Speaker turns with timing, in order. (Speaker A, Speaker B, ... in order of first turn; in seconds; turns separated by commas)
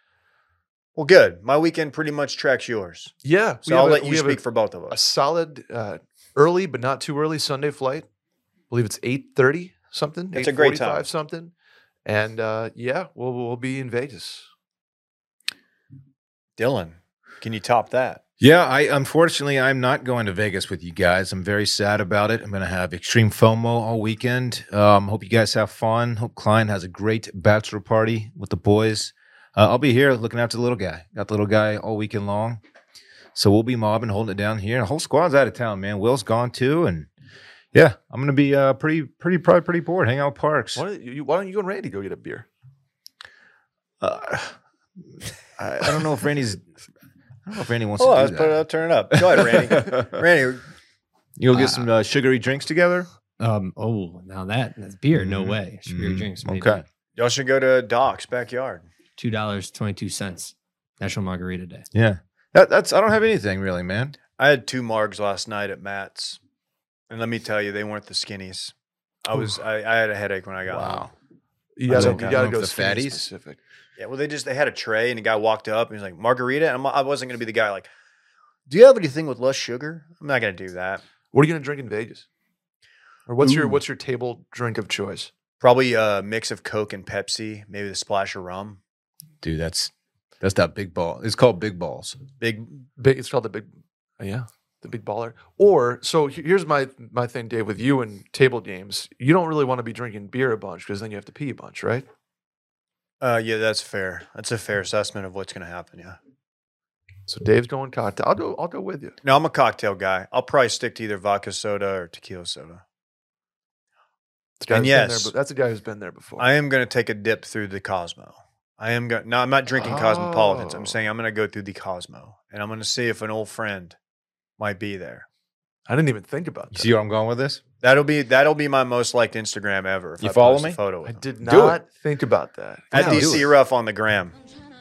Speaker A: 1.0-3.1, Speaker B: 3.2-8.1, Speaker A: 3.6-5.0, Speaker B: 8.7-11.5, Speaker A: 10.3-11.1, Speaker B: 12.1-14.5, Speaker A: 16.6-18.2, Speaker C: 18.4-32.6, Speaker C: 33.4-37.1, Speaker C: 37.7-40.8, Speaker B: 40.8-42.5, Speaker C: 44.0-44.6, Speaker C: 45.6-46.6, Speaker C: 47.5-50.2, Speaker A: 48.0-50.6, Speaker C: 51.4-53.1, Speaker D: 51.5-51.9, Speaker D: 53.4-56.8, Speaker C: 55.1-56.8, Speaker A: 57.2-58.9, Speaker D: 59.2-61.9, Speaker C: 61.9-64.2, Speaker A: 64.4-66.4, Speaker A: 67.1-68.7, Speaker A: 69.2-71.1, Speaker C: 70.7-71.1, Speaker B: 71.8-73.6, Speaker A: 71.9-72.4, Speaker C: 71.9-73.2, Speaker A: 74.0-77.9, Speaker A: 78.7-81.0, Speaker B: 81.3-82.3, Speaker B: 83.3-85.3, Speaker C: 83.4-83.8, Speaker A: 85.6-88.8, Speaker C: 89.4-92.2, Speaker A: 92.4-92.8, Speaker B: 93.0-102.1, Speaker A: 103.2-106.2, Speaker B: 107.3-109.2, Speaker A: 109.2-112.8, Speaker B: 114.6-116.5, Speaker A: 114.7-115.3, Speaker A: 116.4-124.0, Speaker B: 119.7-121.0, Speaker A: 124.6-125.3, Speaker B: 125.9-126.9, Speaker C: 126.7-127.6, Speaker A: 127.8-131.3, Speaker C: 130.2-130.8, Speaker B: 131.1-133.5, Speaker C: 131.4-131.8, Speaker A: 132.9-134.4, Speaker C: 132.9-133.5